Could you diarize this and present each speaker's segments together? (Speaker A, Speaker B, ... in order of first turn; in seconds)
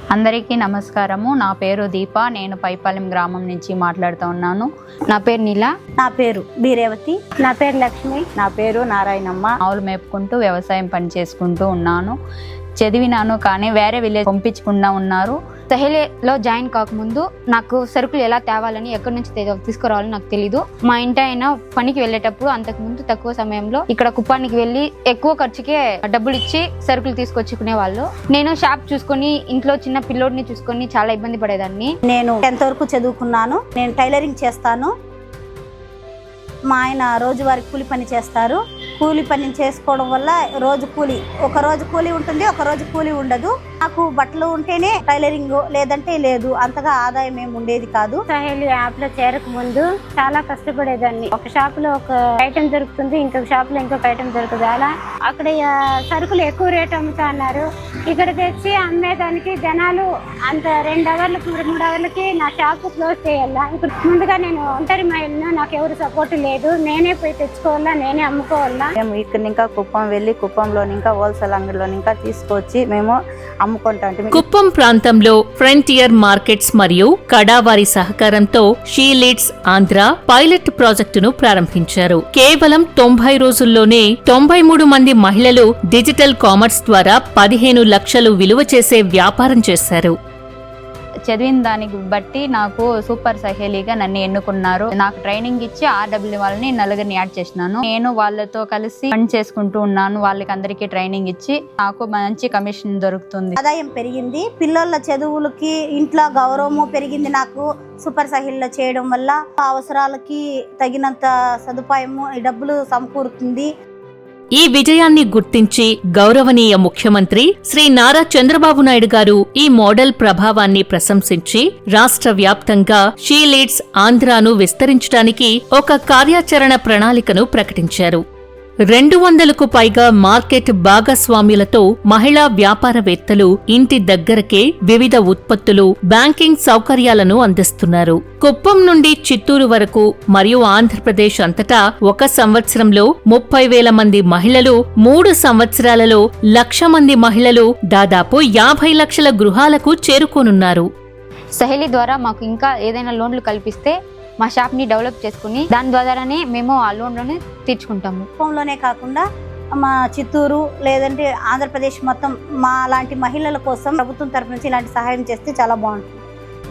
Speaker A: 0.1-4.7, 9.7-12.2, 12.8-15.4, 91.3-103.5
Speaker B: 5.1-5.7, 15.7-31.9, 151.6-158.3
Speaker C: 6.0-7.2, 8.4-9.5, 32.1-34.9, 36.7-48.2, 103.6-113.7, 158.4-159.2, 159.8-166.2
Speaker D: 7.4-8.2, 48.3-68.8
Speaker E: 69.0-74.4
Speaker F: 74.3-90.2, 114.5-128.2, 128.9-150.9